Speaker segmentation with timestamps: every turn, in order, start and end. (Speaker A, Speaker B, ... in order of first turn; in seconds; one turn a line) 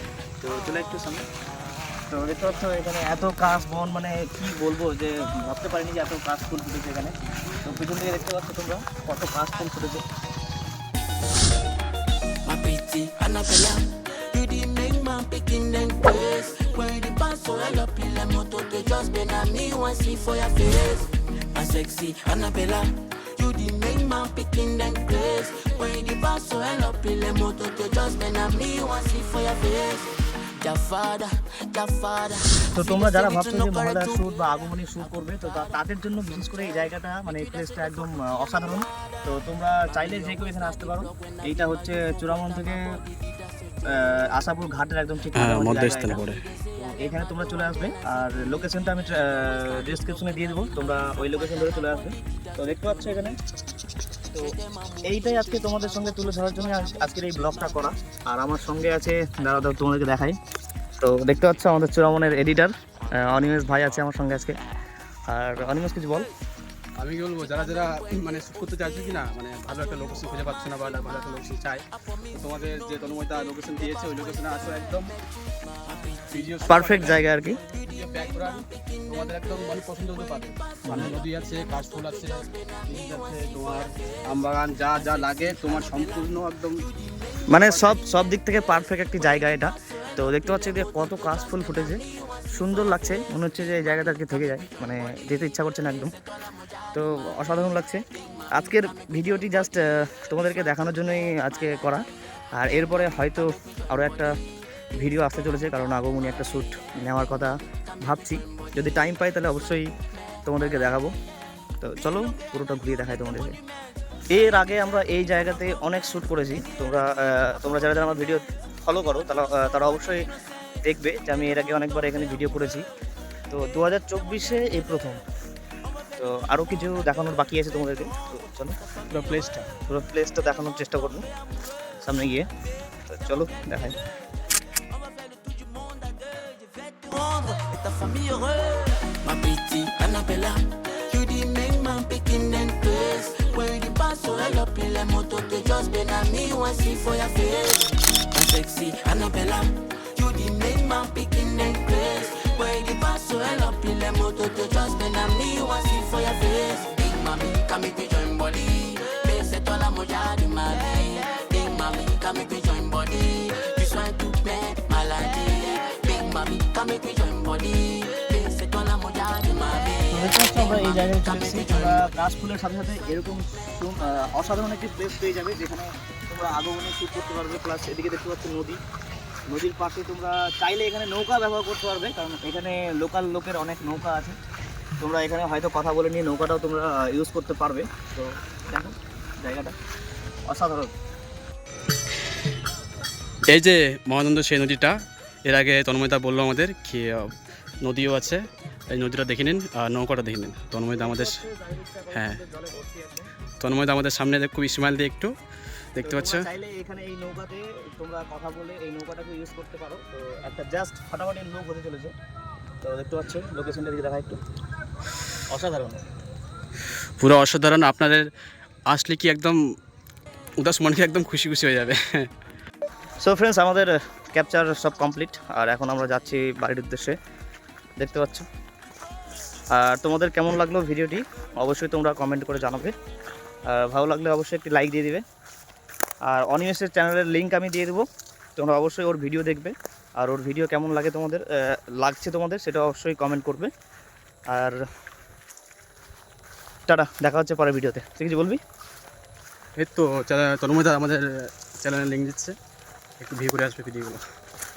Speaker A: 0.4-1.3
Speaker A: 2.1-7.1
Speaker A: 7.6-10.0
Speaker B: 12.4-34.2
Speaker A: 32.7-42.9
Speaker A: 43.9-46.2
Speaker C: 45.3-46.4
Speaker A: 46.8-53.4
Speaker A: 54.3-60.4
Speaker B: 54.7-55.8
Speaker A: 61.0-64.5
Speaker A: 65.3-66.3
Speaker C: 67.0-75.1
Speaker B: 76.0-76.3
Speaker C: 76.3-86.8
Speaker A: 76.6-77.6
Speaker A: 80.8-81.1
Speaker A: 87.5-92.0
Speaker C: 87.6-88.0
Speaker A: 92.5-96.1
Speaker A: 96.9-102.0
Speaker A: 102.5-104.3
Speaker A: 105.0-109.9
Speaker A: 110.5-111.1
Speaker A: 111.8-113.6
Speaker A: 114.3-120.2
Speaker A: 120.8-122.8
Speaker A: 123.5-125.2
Speaker A: 126.2-128.8
Speaker C: 129.1-129.7
Speaker A: 129.9-131.2
Speaker A: 132.0-132.5
Speaker A: 133.1-134.0
Speaker B: 135.3-172.1
Speaker A: 170.1-178.8
Speaker A: 179.5-184.4
Speaker A: 185.0-189.8
Speaker A: 190.5-190.9
Speaker C: 193.5-201.4
Speaker A: 200.9-203.3
Speaker C: 202.1-202.4
Speaker C: 203.6-205.3
Speaker C: 205.9-206.4
Speaker A: 206.0-212.1
Speaker A: 212.8-214.4
Speaker A: 215.5-216.0
Speaker C: 217.2-218.3
Speaker C: 218.9-219.6
Speaker C: 220.6-222.3
Speaker A: 223.2-227.2
Speaker A: 228.0-228.5
Speaker A: 229.7-232.9
Speaker A: 233.7-235.2
Speaker A: 236.2-243.7
Speaker A: 244.5-244.8
Speaker A: 246.9-248.6
Speaker C: 249.8-251.2
Speaker C: 251.8-252.6
Speaker C: 253.2-254.2